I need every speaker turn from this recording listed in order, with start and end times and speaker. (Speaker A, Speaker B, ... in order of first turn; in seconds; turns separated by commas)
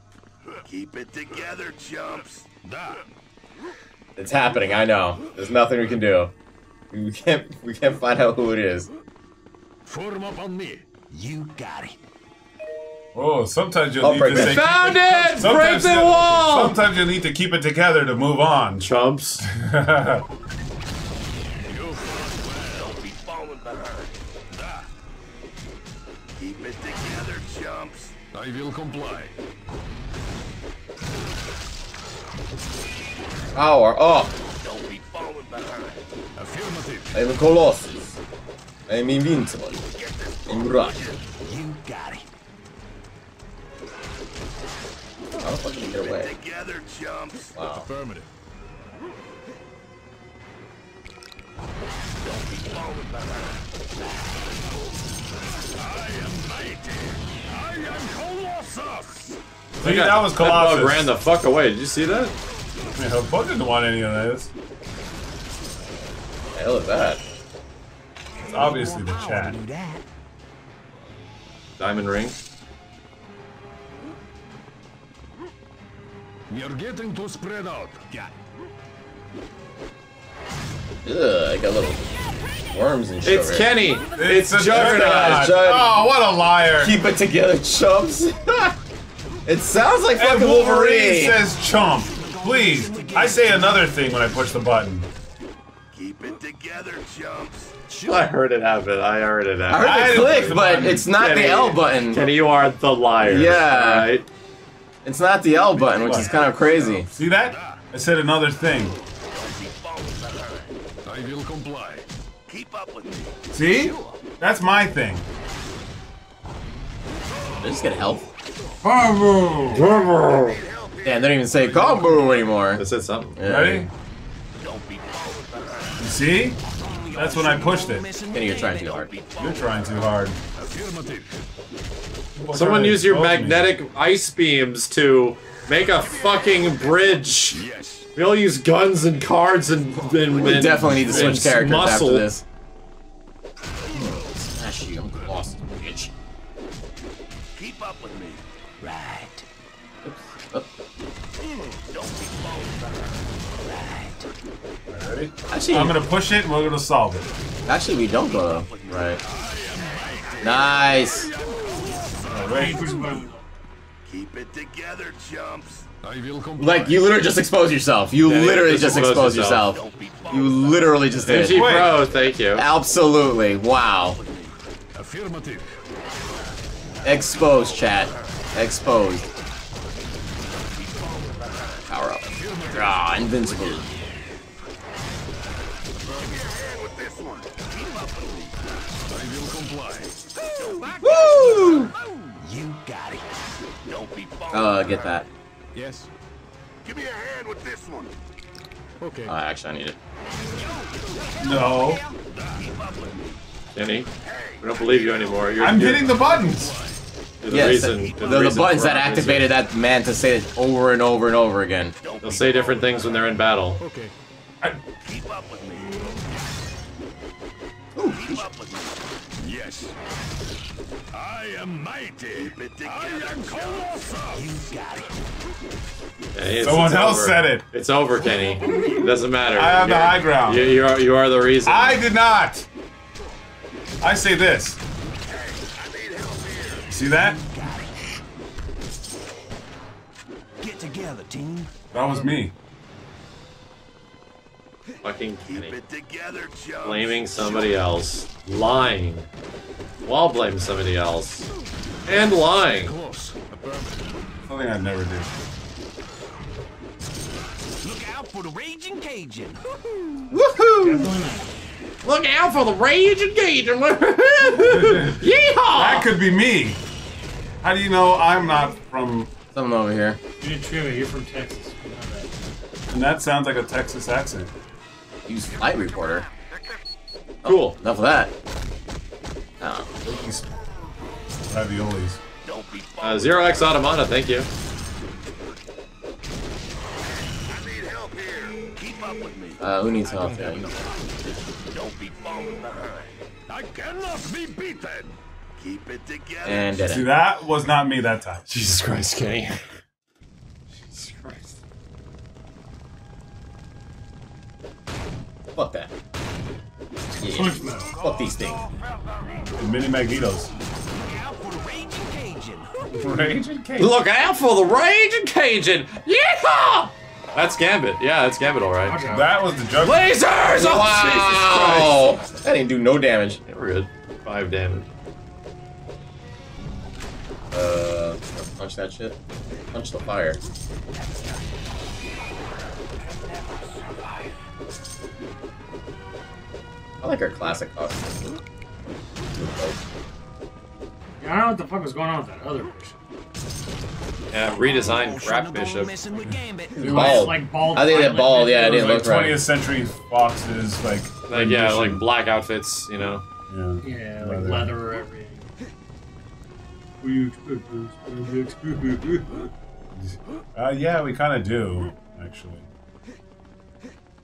Speaker A: 0.7-2.5, Speaker B: 2.6-3.0, Speaker C: 4.2-6.3, Speaker C: 6.9-8.9, Speaker B: 9.8-11.1, Speaker D: 11.1-12.0, Speaker E: 13.1-18.9, Speaker C: 14.0-14.7, Speaker F: 14.3-16.8, Speaker F: 18.8-19.4, Speaker E: 19.4-20.2, Speaker B: 21.7-23.0, Speaker A: 22.7-24.2, Speaker B: 24.5-24.9, Speaker A: 26.4-28.1, Speaker B: 28.3-29.3, Speaker C: 33.5-34.4, Speaker A: 34.6-36.0, Speaker B: 36.4-37.2, Speaker C: 37.1-38.0, Speaker C: 38.9-39.8, Speaker A: 40.0-41.2, Speaker C: 40.5-41.0, Speaker D: 41.4-42.2, Speaker C: 45.3-46.3, Speaker A: 45.8-47.6, Speaker C: 47.6-47.9, Speaker B: 47.6-48.3, Speaker A: 52.2-53.6, Speaker B: 55.8-59.3, Speaker E: 59.8-61.1, Speaker F: 59.8-62.3, Speaker E: 63.0-64.5, Speaker C: 66.5-67.2, Speaker E: 68.4-69.6, Speaker D: 68.5-70.0, Speaker F: 71.8-72.4, Speaker B: 76.5-78.3, Speaker C: 81.0-82.0, Speaker C: 82.7-83.7, Speaker F: 83.2-85.5, Speaker E: 84.2-87.0, Speaker C: 84.7-86.0, Speaker C: 86.8-88.8, Speaker C: 89.5-91.4, Speaker E: 90.1-95.1, Speaker D: 91.6-94.0, Speaker A: 95.9-97.7, Speaker D: 97.9-98.3, Speaker F: 98.1-104.3, Speaker C: 99.7-102.2, Speaker E: 99.7-101.0, Speaker C: 103.2-104.1, Speaker C: 105.0-107.1, Speaker B: 105.7-107.8, Speaker E: 105.9-106.4, Speaker E: 107.1-109.0, Speaker A: 109.3-110.8, Speaker B: 111.0-112.1, Speaker A: 112.5-113.4, Speaker E: 113.5-115.3, Speaker D: 113.6-114.2, Speaker C: 117.5-118.3, Speaker G: 118.8-119.9, Speaker F: 119.7-120.6, Speaker A: 119.9-122.2, Speaker C: 121.0-122.8, Speaker F: 122.7-123.4, Speaker C: 123.4-123.9, Speaker E: 123.4-123.9, Speaker A: 124.6-126.0, Speaker E: 126.0-126.6, Speaker D: 126.7-129.0, Speaker E: 127.1-128.1, Speaker C: 128.3-129.1, Speaker A: 128.8-130.2, Speaker E: 129.4-130.4, Speaker B: 130.6-131.4, Speaker E: 132.3-133.7, Speaker F: 132.5-137.6, Speaker A: 136.4-136.8, Speaker B: 137.5-138.1, Speaker F: 138.2-142.3, Speaker C: 140.3-142.4, Speaker E: 140.5-141.5, Speaker C: 143.9-146.1, Speaker A: 147.6-148.4, Speaker D: 148.8-149.5, Speaker C: 150.0-150.7, Speaker A: 151.9-153.2, Speaker D: 153.6-154.3, Speaker E: 154.9-157.3, Speaker C: 155.5-156.0, Speaker C: 157.7-159.2, Speaker A: 158.0-161.0, Speaker B: 159.2-162.7, Speaker C: 160.4-161.3, Speaker E: 162.3-163.1, Speaker G: 162.5-163.5, Speaker A: 164.1-165.9, Speaker B: 166.0-167.1, Speaker C: 166.6-174.2, Speaker F: 168.2-169.7, Speaker A: 169.2-171.2, Speaker F: 171.2-172.7, Speaker E: 171.3-172.1, Speaker A: 173.8-174.6, Speaker B: 174.9-175.7, Speaker C: 177.0-179.3, Speaker A: 177.5-178.4, Speaker A: 180.7-181.9, Speaker C: 181.9-183.9, Speaker B: 182.2-183.9, Speaker B: 186.0-186.4, Speaker A: 186.1-188.6, Speaker B: 189.1-190.2, Speaker D: 190.4-193.3, Speaker A: 190.6-191.2, Speaker C: 191.0-191.9, Speaker A: 193.9-195.3, Speaker C: 194.5-195.3, Speaker B: 195.7-196.1, Speaker A: 196.8-198.1, Speaker B: 199.0-199.4, Speaker C: 199.3-200.0, Speaker D: 200.5-202.2, Speaker E: 201.4-202.0, Speaker B: 202.3-203.1, Speaker A: 202.6-203.4, Speaker F: 203.8-204.1, Speaker A: 204.2-205.4, Speaker F: 204.6-206.2, Speaker E: 205.6-206.8, Speaker B: 205.9-207.0, Speaker F: 207.4-209.5, Speaker C: 207.5-211.9, Speaker A: 212.0-213.2, Speaker F: 212.2-213.8, Speaker B: 213.8-214.1, Speaker A: 215.0-216.0, Speaker C: 217.9-218.5, Speaker A: 218.1-219.1, Speaker B: 219.4-219.9, Speaker B: 221.1-224.5, Speaker A: 222.3-224.0, Speaker D: 224.3-225.2, Speaker F: 226.3-232.0, Speaker E: 226.6-227.7, Speaker E: 228.2-230.9, Speaker E: 231.7-232.7, Speaker E: 234.0-234.8, Speaker A: 235.3-236.9, Speaker E: 236.9-237.4, Speaker D: 237.1-237.9, Speaker D: 240.6-241.7, Speaker E: 241.9-242.5, Speaker F: 245.0-245.8, Speaker A: 245.5-247.7, Speaker F: 246.8-249.3, Speaker F: 250.1-251.5, Speaker F: 252.1-252.9, Speaker B: 252.7-254.2, Speaker E: 254.5-255.3, Speaker D: 257.8-260.3, Speaker C: 260.3-261.1, Speaker G: 260.8-261.5, Speaker F: 262.0-266.1, Speaker E: 264.4-266.8, Speaker E: 267.6-269.3, Speaker C: 269.5-270.2, Speaker G: 270.4-272.3, Speaker E: 272.9-274.5, Speaker C: 275.3-276.3, Speaker C: 277.4-278.3, Speaker F: 277.5-277.8, Speaker C: 279.6-279.9, Speaker E: 280.0-280.5, Speaker E: 281.5-282.2, Speaker A: 282.4-283.8, Speaker F: 283.0-284.5, Speaker A: 287.5-289.6, Speaker C: 289.6-290.7, Speaker B: 290.1-290.8, Speaker A: 291.7-293.2, Speaker B: 293.5-295.1, Speaker A: 295.6-296.8, Speaker C: 296.4-297.1, Speaker E: 296.9-298.5, Speaker F: 298.5-299.6, Speaker F: 300.7-301.6, Speaker C: 305.6-305.9, Speaker G: 307.1-307.9, Speaker C: 307.2-308.6, Speaker E: 309.6-310.5, Speaker D: 310.9-313.3, Speaker E: 312.9-313.9, Speaker F: 313.8-319.1, Speaker G: 318.9-319.5, Speaker E: 319.1-320.1, Speaker F: 319.8-322.1, Speaker C: 320.6-323.4, Speaker F: 323.5-324.9, Speaker C: 327.5-329.2, Speaker C: 329.7-330.4, Speaker C: 337.0-338.2, Speaker C: 339.3-339.8, Speaker G: 341.2-343.0, Speaker F: 344.3-345.9, Speaker D: 344.5-347.2, Speaker E: 346.2-347.4, Speaker C: 346.8-349.4, Speaker G: 346.9-349.1, Speaker E: 348.6-352.1, Speaker F: 351.3-353.2, Speaker E: 353.5-354.8, Speaker G: 353.8-355.5, Speaker G: 357.0-359.5, Speaker E: 359.9-362.7